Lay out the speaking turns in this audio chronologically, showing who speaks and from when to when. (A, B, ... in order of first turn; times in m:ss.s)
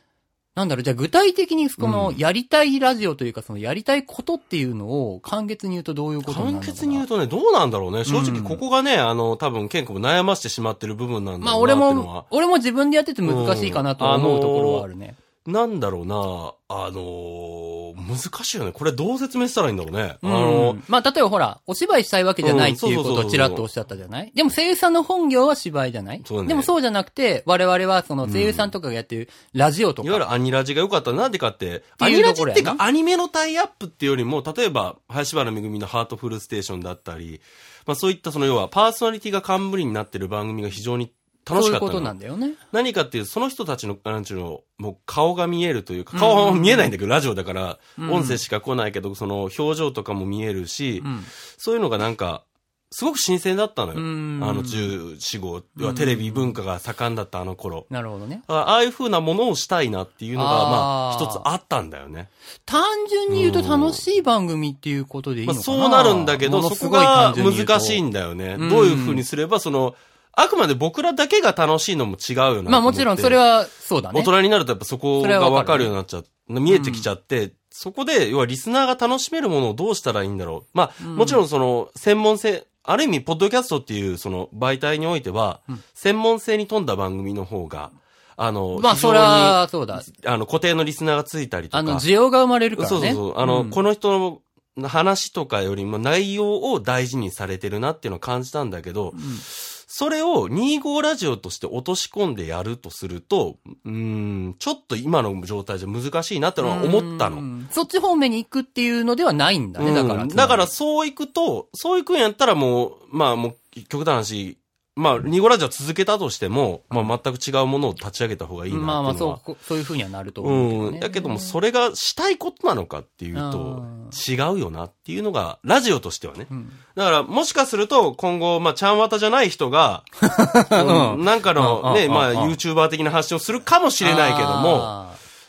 0:00.6-0:07.0 A
0:01.8-0:02.2 B
0:06.3-0:12.3 B
0:08.1-0:08.6 A
0:11.4-0:15.2 A
0:13.2-0:14.9 B
0:15.4-0:20.8 B
0:20.2-0:30.2 A
0:22.4-0:23.6 B
0:26.2-0:26.7 B
0:28.2-0:28.7 B
0:30.0-0:42.2 B
0:32.0-0:32.8 A
0:41.5-0:42.6 A
0:42.7-0:57.9 B
0:46.1-0:46.9 A
0:48.0-0:48.4 A
0:51.0-0:51.3 A
0:54.0-0:54.9 A
0:55.8-0:56.6 A
0:57.9-0:58.4 A
0:58.5-1:02.3 B
1:00.4-1:01.5 A
1:02.7-1:08.0 A
1:03.3-1:04.0 B
1:05.4-1:13.4 B
1:08.6-1:09.2 A
1:12.7-1:14.3 A
1:14.1-1:32.1 B
1:15.2-1:15.9 A
1:16.7-1:17.1 A
1:21.0-1:21.4 A
1:28.7-1:30.1 A
1:31.7-1:33.8 A
1:32.8-1:47.5 B
1:39.1-1:39.4 A
1:46.6-1:50.7 A
1:49.8-1:59.4 B
1:58.7-2:01.6 A
2:00.4-2:10.1 B
2:03.4-2:04.2 A
2:06.5-2:06.8 A
2:10.2-2:12.6 A
2:10.7-2:14.9 B
2:14.0-2:15.2 A